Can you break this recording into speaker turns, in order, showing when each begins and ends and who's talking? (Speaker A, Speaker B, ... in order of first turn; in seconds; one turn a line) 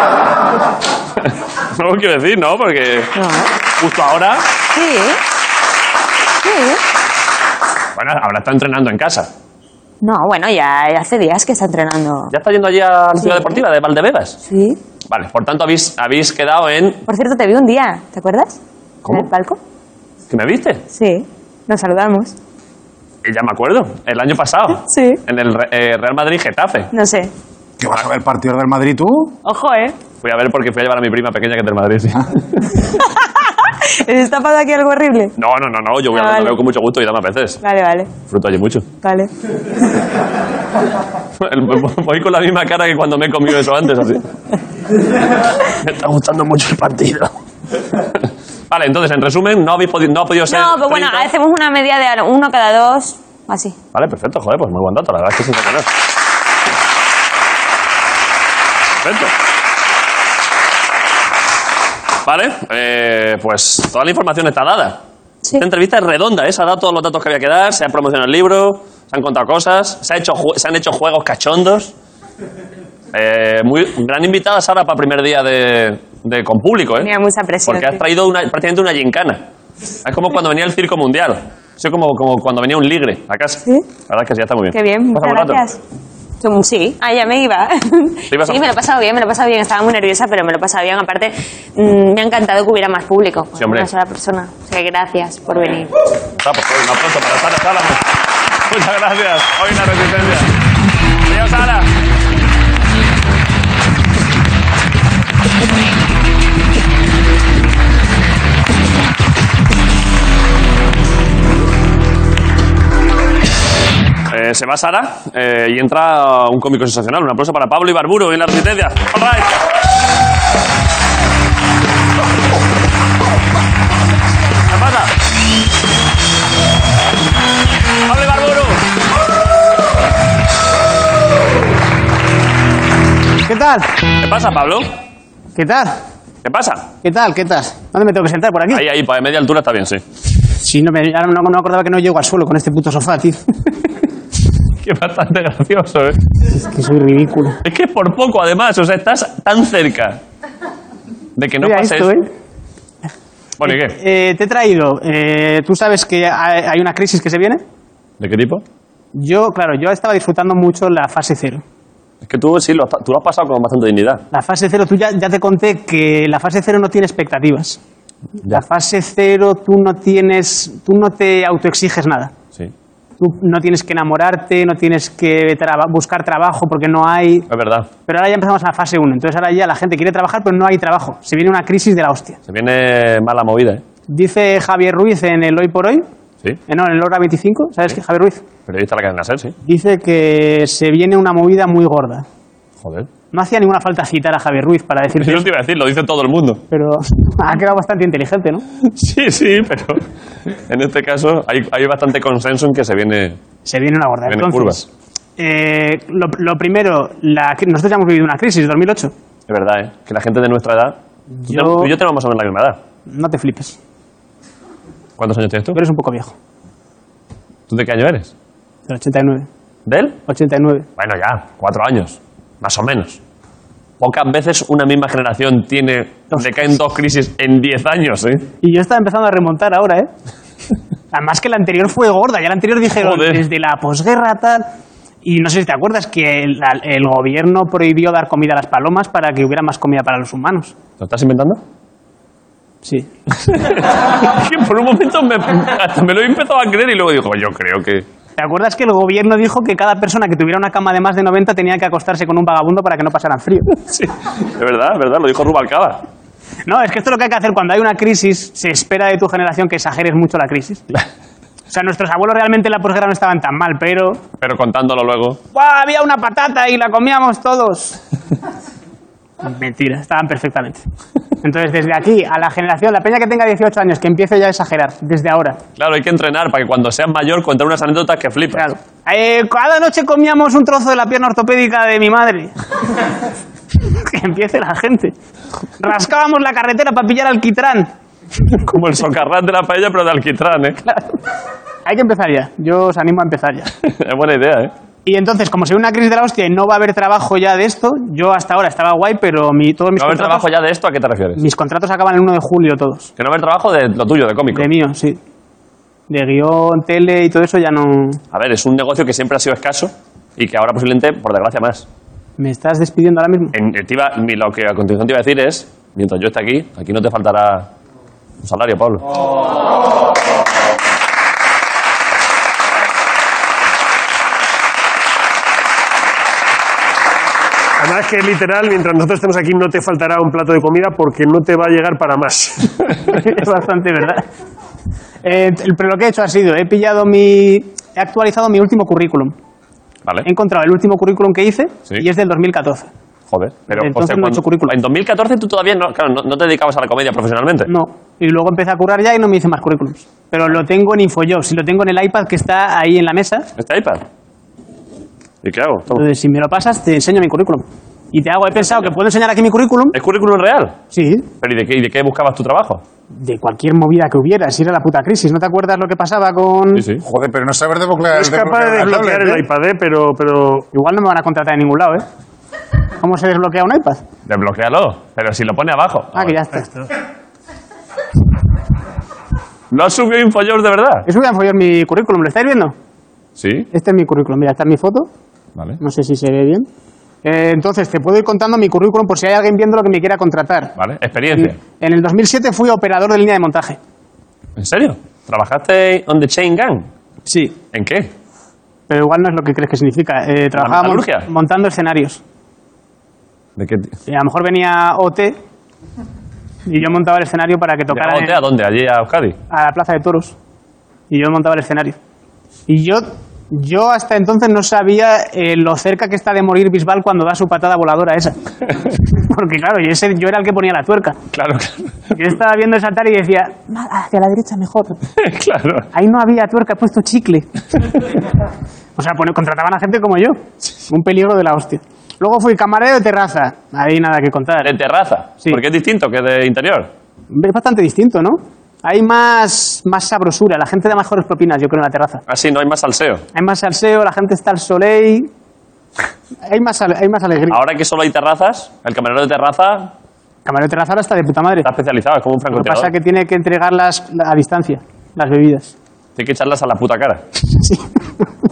Speaker A: 1.2-3.1
Speaker B: 3.1-3.5
Speaker A: 3.8-4.4
Speaker B: 4.7-5.2
Speaker B: 6.4-6.8
Speaker A: 8.0-9.3
Speaker B: 10.0-12.3
Speaker A: 12.3-14.4
Speaker B: 13.2-13.5
Speaker B: 14.5-14.8
Speaker A: 15.1-17.0
Speaker B: 17.1-18.6
Speaker B: 19.1-19.6
Speaker A: 20.3-20.8
Speaker B: 20.9-22.3
Speaker A: 23.2-26.9
Speaker B: 24.9-25.2
Speaker B: 26.9-27.3
Speaker C: 27.8-29.4
Speaker B: 29.4-29.9
Speaker A: 30.2-32.8
Speaker B: 32.8-35.3
Speaker A: 35.4-37.6
Speaker B: 36.1-36.6
Speaker B: 37.6-38.1
Speaker A: 38.3-38.9
Speaker B: 39.0-39.3
Speaker A: 41.4-44.3
Speaker A: 45.7-47.3
Speaker A: 47.9-51.3
Speaker B: 50.5-53.8
Speaker A: 53.9-55.9
Speaker A: 59.0-59.3
Speaker A: 62.3-65.0
Speaker A: 65.6-71.9
Speaker A: 73.1-77.1
Speaker B: 77.0-78.0
Speaker A: 77.7-79.4
Speaker A: 80.0-85.6
Speaker B: 84.7-85.8
Speaker B: 86.4-95.9
Speaker A: 88.3-88.6
Speaker A: 93.6-93.9
Speaker A: 96.4-98.1
Speaker A: 98.7-100.5
Speaker A: 101.3-101.9
Speaker A: 114.3-119.5
Speaker A: 124.7-125.1
Speaker A: 128.1-128.8
Speaker D: 133.5-133.9
Speaker A: 134.2-134.9
Speaker D: 135.6-136.0
Speaker A: 136.4-136.9
Speaker D: 137.0-138.8
Speaker A: 138.7-140.0
Speaker D: 140.6-143.4
Speaker A: 144.8-146.2
Speaker D: 146.6-147.6
Speaker A: 147.6-150.2
Speaker A: 151.4-152.1
Speaker D: 151.6-152.3
Speaker A: 153.6-154.0
Speaker D: 153.7-157.6
Speaker A: 158.2-158.6
Speaker D: 159.2-161.6
Speaker A: 162.2-164.2
Speaker D: 164.3-167.8
Speaker D: 168.4-172.3
Speaker D: 173.2-177.5
Speaker A: 177.5-177.9
Speaker D: 178.1-182.4
Speaker A: 182.5-183.8
Speaker D: 184.1-186.1
Speaker D: 186.7-188.4
Speaker A: 188.7-189.6
Speaker D: 189.7-192.2
Speaker A: 192.8-193.1
Speaker D: 193.3-195.5
Speaker A: 195.2-196.6
Speaker D: 196.7-198.6
Speaker A: 198.8-203.4
Speaker D: 203.7-204.9
Speaker A: 204.3-204.8
Speaker D: 205.4-209.1
Speaker A: 209.5-211.0
Speaker D: 211.4-211.9
Speaker A: 211.5-212.8
Speaker D: 213.1-213.8
Speaker A: 215.2-215.8
Speaker D: 215.7-216.3
Speaker A: 217.7-218.3
Speaker D: 218.9-219.5
Speaker A: 219.9-220.2
Speaker D: 220.3-220.9
Speaker A: 221.0-223.2
Speaker A: 224.0-228.5
Speaker D: 228.6-230.1
Speaker D: 231.1-234.7
Speaker A: 233.0-233.4
Speaker D: 235.2-240.7
Speaker A: 241.0-241.6
Speaker A: 243.5-248.1
Speaker D: 248.4-253.7
Speaker A: 253.8-256.0
Speaker D: 256.7-260.9
Speaker D: 261.7-264.2
Speaker A: 264.4-265.4
Speaker D: 265.5-268.0
Speaker D: 269.4-270.8
Speaker D: 271.4-275.6
Speaker A: 275.8-278.7
Speaker D: 278.5-282.5
Speaker D: 283.8-285.1
Speaker D: 285.8-287.9
Speaker A: 288.6-290.8
Speaker D: 291.9-293.7
Speaker A: 293.8-294.7
Speaker D: 295.1-300.5
Speaker A: 300.0-301.4
Speaker D: 301.4-303.1
Speaker A: 303.2-304.7
Speaker D: 304.5-305.2
Speaker D: 306.1-308.2
Speaker A: 308.3-311.9
Speaker D: 312.4-313.5
Speaker A: 313.5-317.7
Speaker A: 318.4-319.0
Speaker E: 327.8-332.8
Speaker D: 333.1-334.2
Speaker D: 335.2-339.3
Speaker D: 340.2-342.9
Speaker A: 343.3-347.7
Speaker D: 343.7-344.8
Speaker D: 347.7-353.5
Speaker A: 353.6-354.0
Speaker A: 355.4-356.0
Speaker D: 355.9-359.9
Speaker A: 359.9-360.8
Speaker D: 360.9-361.3
Speaker A: 361.4-362.8
Speaker D: 363.1-366.9
Speaker A: 366.7-367.0
Speaker C: 367.0-369.4
Speaker E: 368.1-370.7
Speaker D: 370.7-372.1
Speaker D: 373.0-374.0
Speaker A: 374.3-376.4
Speaker D: 376.1-376.9
Speaker A: 379.7-381.1
Speaker D: 381.1-382.7
Speaker A: 383.4-383.7
Speaker D: 383.7-385.1
Speaker D: 385.8-386.7
Speaker D: 387.2-390.7
Speaker A: 390.8-391.6
Speaker D: 391.3-393.8
Speaker A: 394.6-396.9
Speaker D: 397.3-397.6
Speaker A: 397.7-398.1
Speaker D: 398.9-402.2
Speaker A: 400.6-401.3
Speaker A: 403.6-403.9
Speaker D: 404.1-405.4
Speaker D: 406.7-408.4
Speaker A: 407.9-409.4
Speaker D: 409.5-410.4
Speaker D: 411.1-412.0
Speaker D: 412.7-418.4
Speaker D: 419.1-421.2
Speaker A: 421.3-422.1
Speaker D: 422.1-425.0
Speaker A: 425.2-425.9
Speaker D: 425.9-427.5
Speaker D: 429.0-434.7
Speaker A: 434.6-436.9
Speaker D: 437.3-442.2
Speaker A: 442.3-443.2
Speaker D: 443.3-445.3
Speaker D: 446.5-447.6
Speaker A: 447.5-449.9
Speaker D: 450.4-451.7
Speaker A: 451.6-452.9
Speaker D: 452.5-455.7
Speaker A: 456.2-457.2
Speaker D: 457.5-458.3